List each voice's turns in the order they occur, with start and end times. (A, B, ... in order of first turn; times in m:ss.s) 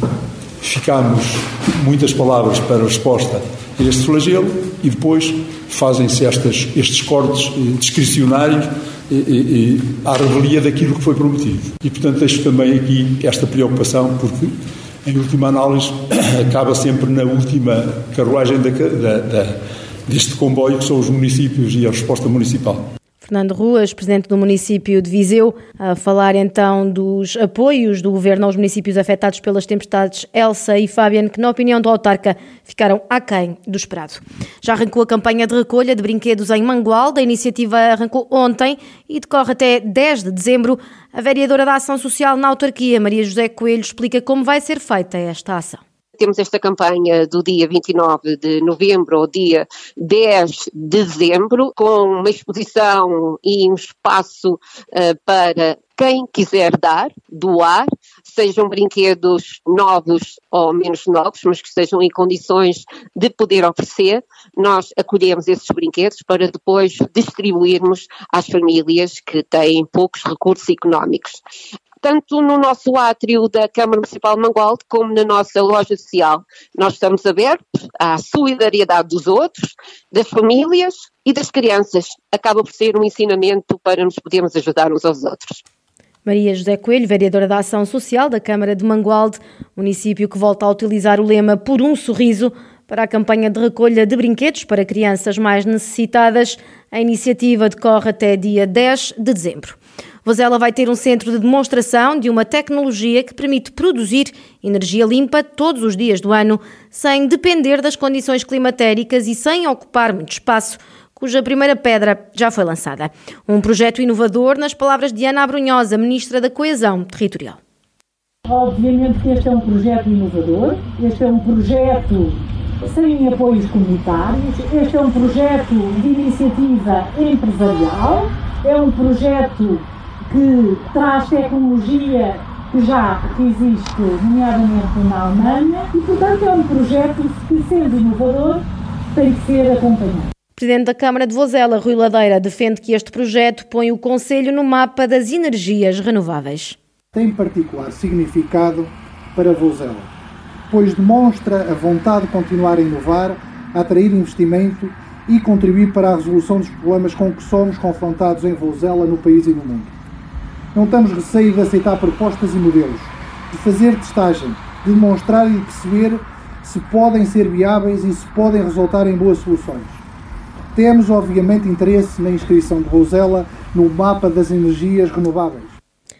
0:00.6-0:14.5 A
0:15.0-0:22.8 A
0:23.2-0:45.8 B
0:46.2-1:11.4 C
1:12.0-1:25.6 C
1:26.2-1:57.6 B
1:58.5-2:20.3 D
2:20.6-2:26.8 B
2:27.1-2:30.1 E
2:30.7-2:39.9 E
2:40.7-2:50.0 E
2:50.7-2:55.7 E